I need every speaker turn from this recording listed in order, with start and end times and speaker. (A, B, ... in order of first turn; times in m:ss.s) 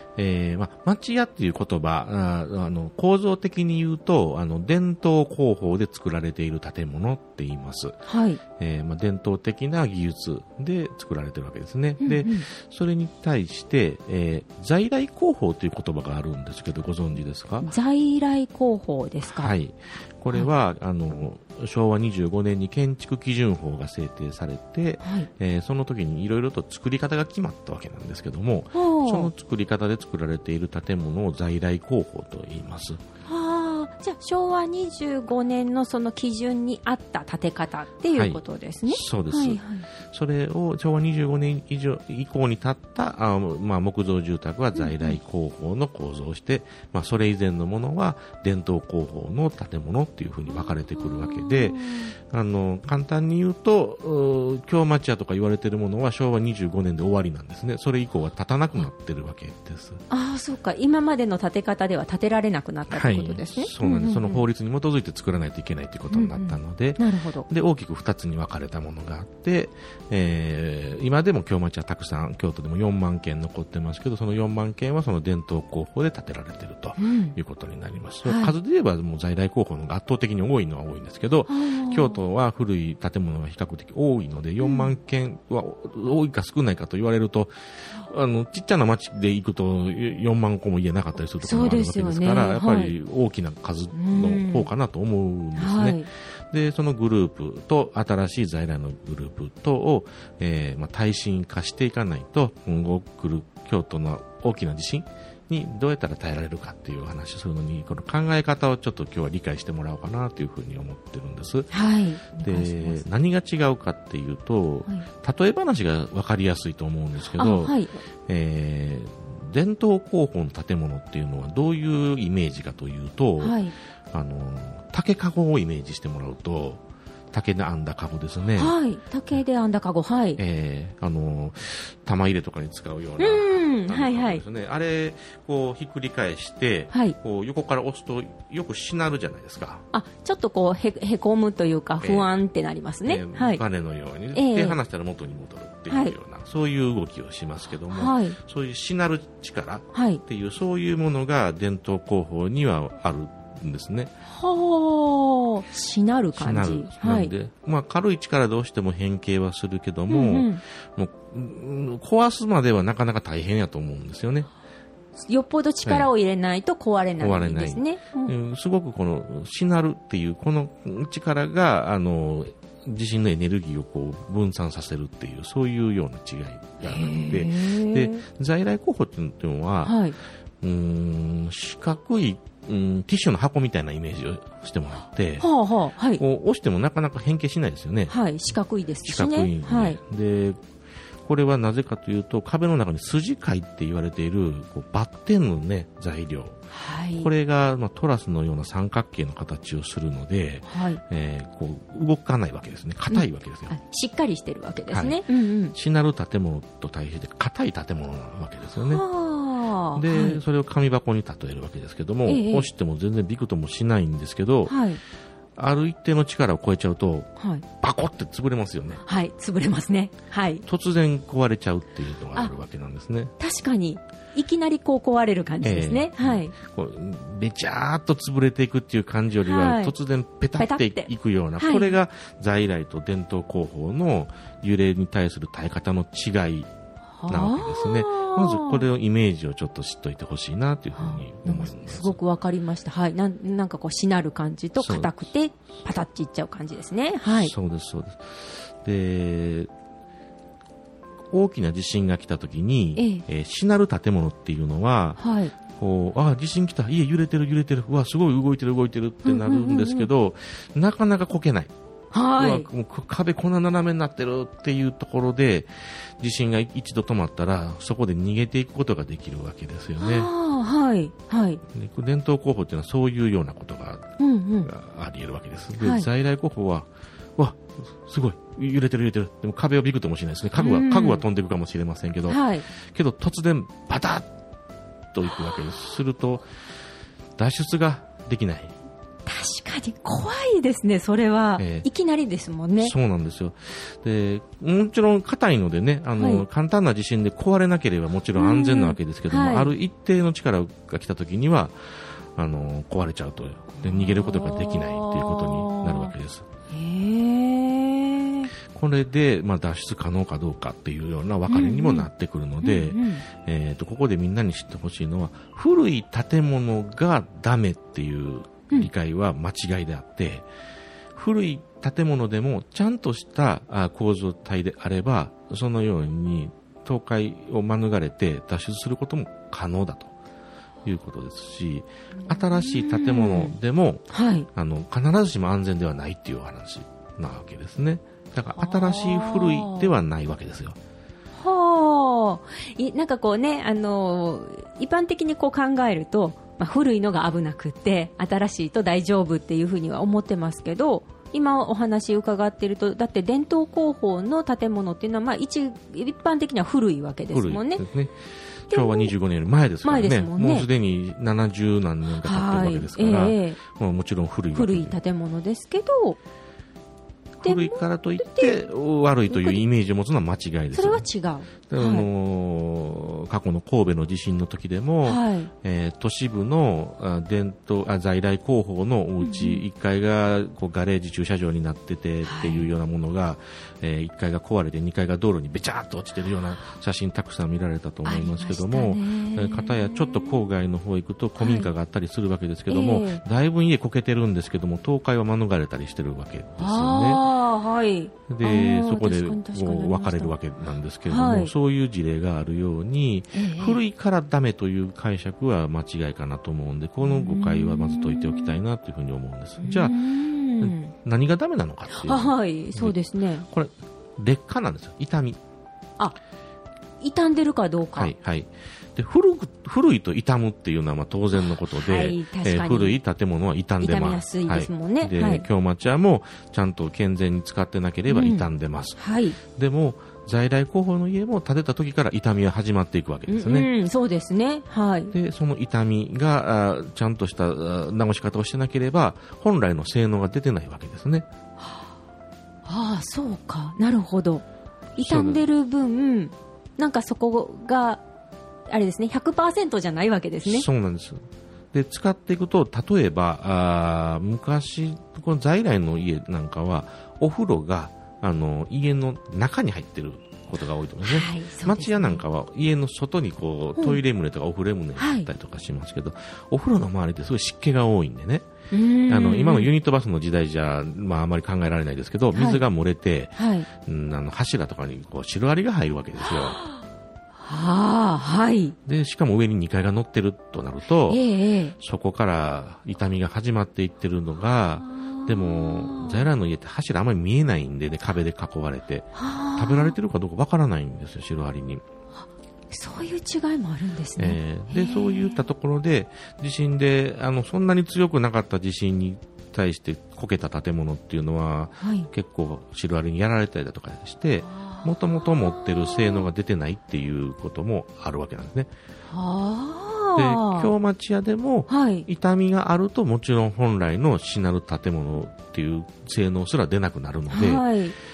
0:00.2-0:08.0 A
0:08.1-0:08.4 B
0:08.6-0:17.7 A
0:12.0-0:12.5 B
0:17.6-0:19.5 B
0:19.3-0:33.0 A
0:25.0-0:25.3 B
0:28.7-0:29.3 B
0:33.3-0:39.9 B
0:38.1-1:00.0 A
0:44.8-0:45.2 B
0:50.5-0:52.1 B
1:00.1-1:04.4 B
1:02.9-1:51.7 A
1:06.1-1:07.5 B
1:17.0-1:17.4 B
1:18.2-1:18.5 B
1:21.5-1:22.2 B
1:24.6-1:24.9 B
1:31.4-1:32.9 B
1:33.9-1:34.7 B
1:35.6-1:36.1 B
1:51.7-1:53.0 B
1:52.4-1:57.8 A
1:57.3-1:58.0 B
1:58.3-2:03.6 A
2:03.4-2:03.7 B
2:04.1-2:08.8 A
2:08.6-2:10.4 B
2:10.4-2:19.8 A
2:13.2-2:14.4 B
2:19.9-2:23.6 B
2:22.0-2:22.3 A
2:23.0-2:34.1 A
2:24.3-2:24.8 B
2:25.9-2:26.2 B
2:27.9-2:28.4 B
2:29.9-2:30.2 B
2:34.3-2:37.3 B
2:36.4-2:44.5 A
2:40.1-2:40.6 B
2:45.2-2:48.3 B
2:45.8-2:46.1 A
2:47.2-3:00.0 A
2:56.8-2:58.2 B
2:59.8-3:00.2 B
3:00.6-3:05.5 A
3:05.4-3:06.2 B
3:06.2-3:08.2 A
3:08.1-3:10.0 B
3:09.0-3:10.6 A
3:11.2-3:16.6 A
3:16.7-3:17.3 B
3:17.2-3:23.8 A
3:20.7-3:21.0 B
3:23.1-3:25.8 B
3:24.9-3:25.2 A
3:25.7-3:29.0 A
3:28.8-3:30.4 B
3:30.0-3:34.7 A
3:32.3-3:32.7 B
3:34.7-3:35.0 B
3:35.6-3:37.3 A
3:37.4-3:37.6 B
3:37.8-3:39.0 A
3:39.0-3:40.6 B
3:40.7-3:43.3 A
3:43.4-3:46.5 B
3:45.6-3:56.7 A
3:49.4-3:50.0 B
3:50.6-3:52.0 B
3:57.2-3:58.9 B
3:57.3-4:02.2 A
4:01.0-4:07.5 B
4:04.8-4:05.1 A
4:07.3-4:09.7 A
4:11.3-4:15.2 A
4:13.0-4:13.2 B
4:15.2-4:15.5 B
4:15.7-4:21.7 A
4:19.2-4:20.1 B
4:22.1-4:22.7 B
4:22.4-4:30.3 A
4:30.0-4:31.6 B
4:31.7-4:34.1 A
4:34.2-4:34.7 B
4:34.6-4:44.3 A
4:35.8-4:36.1 B
4:40.6-4:41.2 B
4:42.3-4:42.7 B
4:45.1-4:46.5 A
4:47.4-4:48.7 A
4:49.3-4:52.9 B
4:51.6-4:51.9 A
4:52.8-5:06.5 A
4:56.2-4:56.4 B
4:58.4-4:59.8 B
5:03.8-5:06.1 B
5:06.7-5:08.5 B
5:08.7-5:20.5 A
5:11.5-5:12.1 B
5:12.6-5:13.2 B
5:21.2-5:30.1 A
5:30.8-5:40.8 A
5:32.2-5:33.6 B
5:34.1-5:34.5 B
5:38.6-5:39.9 B
5:41.4-5:57.8 B
5:57.3-5:58.2 A
5:58.7-6:04.9 A
5:58.7-5:59.1 B
5:59.8-6:00.7 B
6:02.2-6:03.6 B
6:04.5-6:06.2 B
6:07.4-6:11.1 A
6:07.4-6:08.7 B
6:09.3-6:09.6 B
6:10.7-6:12.1 B
6:11.7-6:37.2 A
6:15.0-6:15.5 B
6:19.2-6:19.6 B
6:22.2-6:22.7 B
6:28.0-6:30.5 B
6:31.4-6:31.7 B
6:32.7-6:33.2 B
6:36.6-6:40.4 B
6:38.3-6:50.0 A
6:41.1-6:41.5 B
6:43.3-6:43.8 B
6:47.0-6:48.6 B
6:49.6-6:50.9 B
6:50.6-6:53.0 A
6:51.9-6:53.5 B
6:53.5-6:55.4 A
6:57.0-6:58.1 B
6:58.0-7:09.0 A
7:01.4-7:03.0 B
7:03.8-7:05.5 B
7:08.1-7:09.4 B
7:09.5-7:13.7 A
7:13.3-7:15.1 B
7:15.1-7:21.3 A
7:22.6-7:24.4 B
7:25.0-7:25.5 A
7:25.0-7:28.0 B
7:28.7-7:30.7 B
7:30.4-7:48.5 A
7:41.0-7:42.2 B
7:43.8-7:44.0 B
7:45.0-7:45.3 B
7:48.7-7:49.7 B
7:49.1-7:56.6 A
7:52.3-7:52.6 B
7:53.4-7:53.7 B
7:56.2-7:56.8 B
7:57.4-7:58.8 B
7:58.9-8:01.2 A
8:01.1-8:01.8 B
8:01.8-8:11.8 A
8:04.9-8:06.3 B
8:09.2-8:10.0 B
8:12.7-8:15.5 B
8:14.2-8:28.7 A
8:21.8-8:22.1 B
8:24.5-8:26.3 B
8:29.1-8:30.7 B
8:30.2-8:37.7 A
8:31.7-8:32.1 B
8:37.3-8:38.0 B